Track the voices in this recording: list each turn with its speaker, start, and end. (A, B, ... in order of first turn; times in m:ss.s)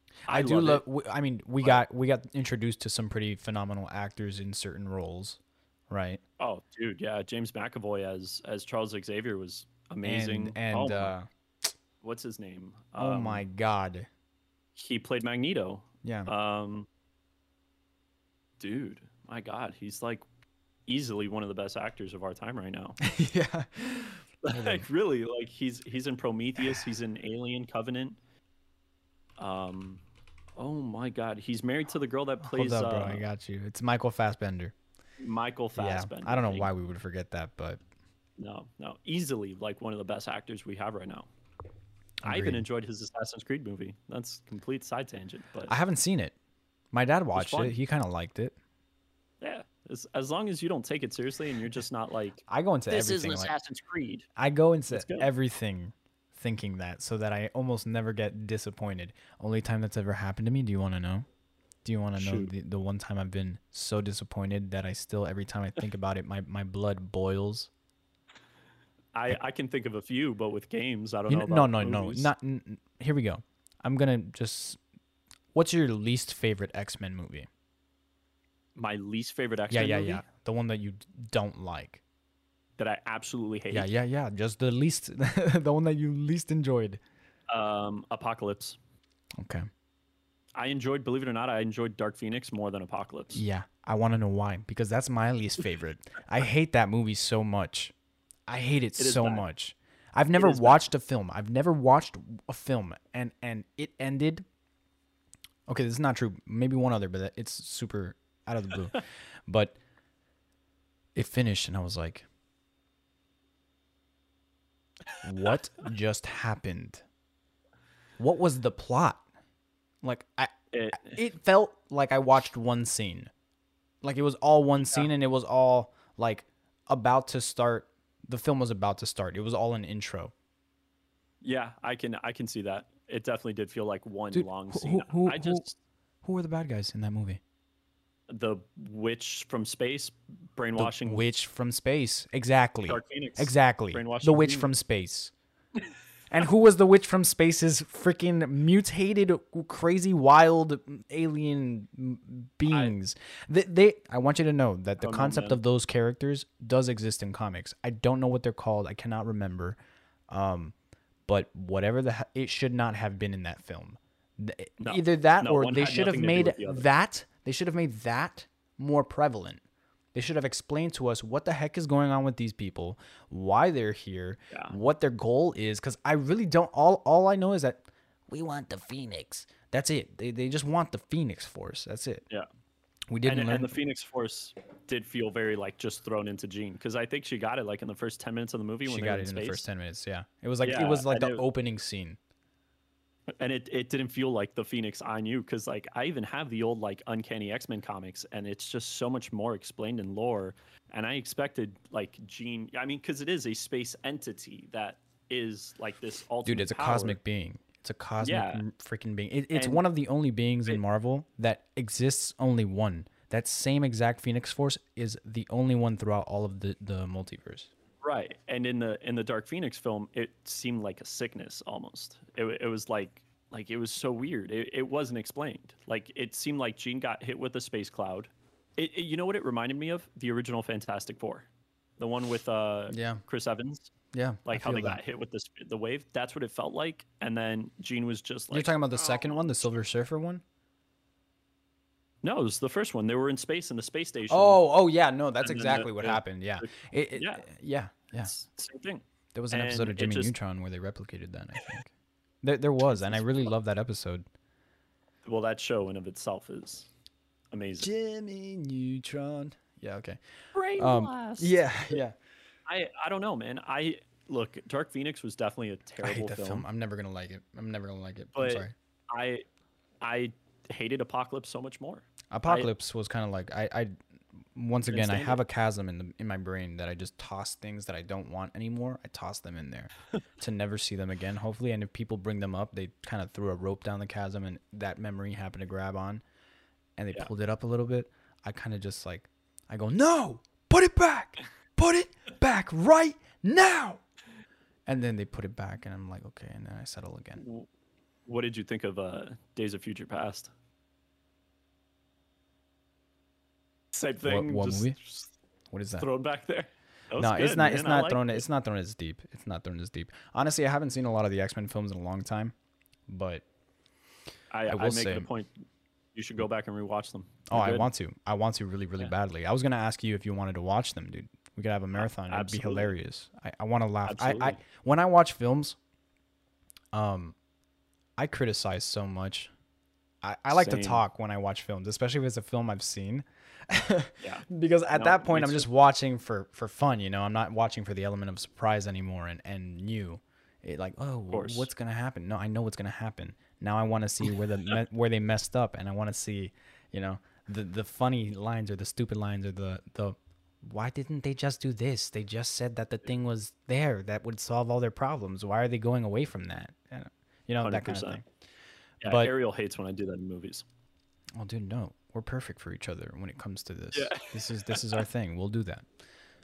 0:00.3-0:00.8 A
0:00.3-0:05.4 B
0:05.9-0:06.2 B
0:06.4-0:11.1 A
0:10.0-0:11.3 B
0:12.0-0:13.4 A
0:13.0-0:14.1 B
0:14.7-0:16.9 A
0:16.0-0:16.3 B
0:18.6-0:20.2 A
0:20.9-0:23.0 A
0:23.0-0:24.8 B
0:24.4-0:28.2 A
0:29.4-0:30.0 A
0:30.6-0:33.2 A
0:32.4-0:34.7 B
0:35.2-0:36.7 A
0:35.8-0:37.8 B
0:38.4-0:41.3 A
0:42.2-0:42.6 B
0:42.2-0:45.7 A
0:45.7-0:46.4 B
0:46.9-0:48.6 B
0:47.4-0:47.8 A
0:49.4-0:54.2 A
0:52.5-0:53.5 B
0:54.4-1:01.2 B
0:54.9-0:55.3 A
1:01.8-1:07.7 B
1:02.1-1:02.5 A
1:09.1-1:12.3 A
1:11.3-1:14.8 B
1:15.5-1:17.5 B
1:18.7-1:20.2 A
1:19.7-1:22.0 B
1:22.8-1:23.9 A
1:23.7-1:27.0 B
1:27.5-1:28.8 A
1:29.4-1:29.7 B
1:30.6-1:33.4 A
1:33.3-1:37.9 B
1:38.5-1:44.4 B
1:39.0-1:39.4 A
1:40.4-1:40.8 A
1:45.7-1:49.8 B
1:51.1-1:52.2 B
1:55.2-1:57.0 B
1:58.2-1:59.2 B
2:00.0-2:03.3 B
2:00.7-2:01.2 A
2:04.0-2:10.3 B
2:11.4-2:15.8 A
2:14.3-2:15.6 B
2:16.2-2:17.4 B
2:18.3-2:21.2 A
2:20.8-2:25.3 B
2:22.9-2:24.7 A
2:26.3-2:39.8 B
2:32.7-2:32.9 A
2:35.0-2:35.6 A
2:40.3-2:40.7 B
2:41.3-2:49.6 B
2:44.8-2:46.9 A
2:50.1-3:02.2 B
2:54.5-2:54.7 A
3:03.1-3:03.7 B
3:03.2-3:09.7 A
3:08.9-3:12.2 B
3:10.6-3:11.4 A
3:13.3-3:27.2 A
3:26.4-3:37.7 B
3:28.2-3:28.6 A
3:29.5-3:29.8 A
3:38.0-3:51.5 A
3:52.0-3:53.9 A
3:52.9-3:53.2 B
3:54.1-3:55.0 B
3:54.4-3:59.8 A
3:58.5-4:00.4 B
4:02.2-4:04.6 A
4:04.3-4:08.3 B
4:05.4-4:07.5 A
4:08.2-4:10.3 A
4:09.3-4:11.9 B
4:12.4-4:14.2 B
4:12.9-4:13.5 A
4:15.2-4:16.9 A
4:17.5-4:17.9 A
4:17.8-4:20.2 B
4:20.5-4:22.0 A
4:20.8-4:22.1 B
4:22.6-4:26.6 A
4:26.0-4:28.7 B
4:28.4-4:29.4 A
4:30.0-4:32.7 A
4:32.3-4:33.9 B
4:34.6-4:46.2 B
4:34.9-4:35.4 A
4:47.0-4:54.0 B
4:54.9-4:57.4 B
4:57.4-4:57.7 A
4:58.2-5:00.5 A
5:03.9-5:05.3 A
5:04.2-5:05.0 B
5:05.7-5:06.1 B
5:06.0-5:08.4 A
5:07.2-5:12.6 B
5:13.1-5:13.4 B
5:14.5-5:17.9 A
5:14.7-5:15.3 B
5:17.5-5:25.8 B
5:21.9-5:22.9 A
5:24.0-5:24.6 A
5:26.9-5:27.4 B
5:28.2-5:29.5 B
5:30.2-5:58.2 B
5:30.5-5:31.0 A
5:34.2-5:35.7 A
5:41.3-5:41.7 A
5:57.6-5:58.2 A
5:59.0-6:00.6 A
5:59.0-5:59.3 B
6:01.4-6:05.9 B
6:03.9-6:05.0 A